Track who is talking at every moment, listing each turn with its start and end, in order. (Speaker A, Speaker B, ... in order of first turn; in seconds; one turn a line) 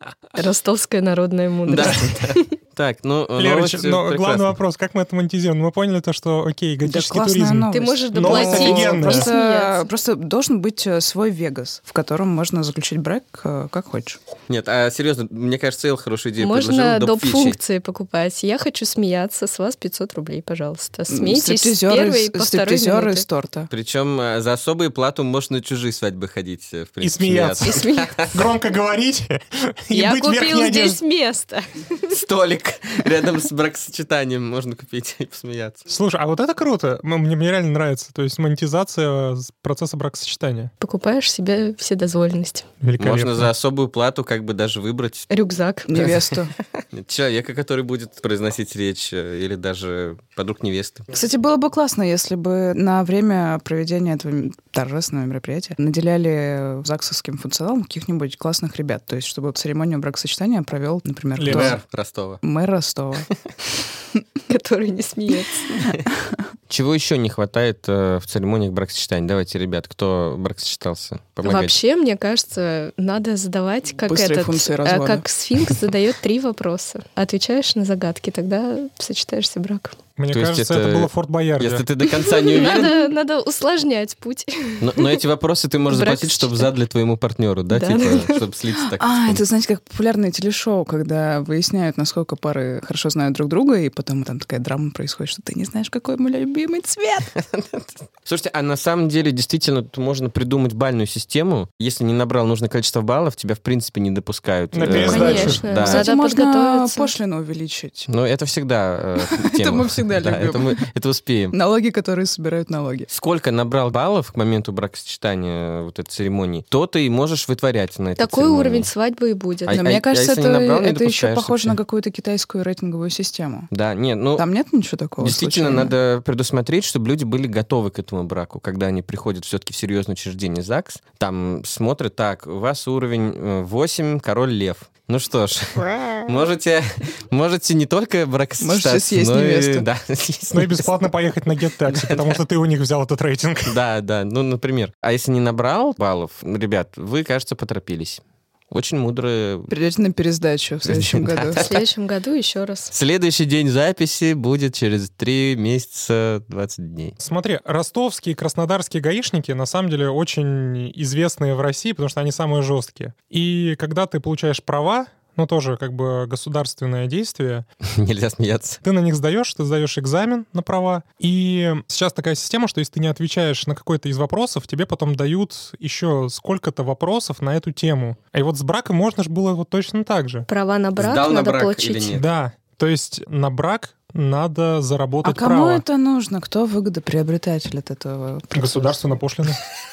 Speaker A: 0.3-2.5
Speaker B: 1.6-4.5
Speaker C: 3.4-9.3
Speaker D: 6.8-14.2
Speaker A: 7.7-9.8
Speaker B: 14.5-17.6
Speaker A: 16.4-23.2
Speaker D: 21.1-23.7
Speaker B: 23.7-28.4
Speaker C: 27.0-31.0
Speaker A: 27.6-28.1
Speaker A: 29.9-32.1
Speaker B: 32.1-35.9
Speaker C: 35.9-40.7
Speaker A: 40.8-42.7
Speaker C: 42.8-43.5
Speaker B: 43.0-45.3
Speaker A: 45.3-46.1
Speaker D: 45.9-46.5
Speaker B: 46.0-51.1
Speaker D: 51.1-61.8
Speaker C: 61.4-61.8
Speaker B: 61.4-62.4
Speaker D: 62.4-63.3
Speaker A: 64.5-65.8
Speaker B: 66.7-71.7
Speaker A: 71.4-79.9
Speaker D: 74.0-75.2
Speaker C: 80.2-81.8
Speaker B: 80.3-83.0
Speaker A: 82.2-85.2
Speaker B: 84.8-89.4
Speaker A: 85.9-86.7
Speaker A: 87.7-88.4
Speaker D: 88.8-97.3
Speaker B: 97.3-106.1
Speaker C: 104.7-105.6
Speaker A: 104.9-107.1
Speaker D: 104.9-108.1
Speaker B: 108.1-111.5
Speaker D: 109.2-110.8
Speaker D: 111.5-113.1
Speaker B: 113.1-118.9
Speaker A: 118.2-119.8
Speaker B: 119.7-121.8
Speaker D: 119.7-123.7
Speaker B: 123.7-124.5
Speaker D: 124.3-125.9
Speaker B: 125.2-140.9
Speaker D: 138.6-139.8
Speaker C: 140.5-143.8
Speaker B: 141.8-142.4
Speaker B: 143.7-149.7
Speaker D: 149.7-151.6
Speaker B: 150.9-151.8
Speaker A: 151.5-152.9
Speaker B: 152.9-157.2
Speaker C: 157.2-167.7
Speaker B: 167.9-168.8
Speaker C: 168.8-180.5
Speaker A: 180.5-182.1
Speaker B: 181.0-182.2
Speaker C: 182.1-185.8
Speaker D: 185.2-188.9
Speaker C: 188.5-189.6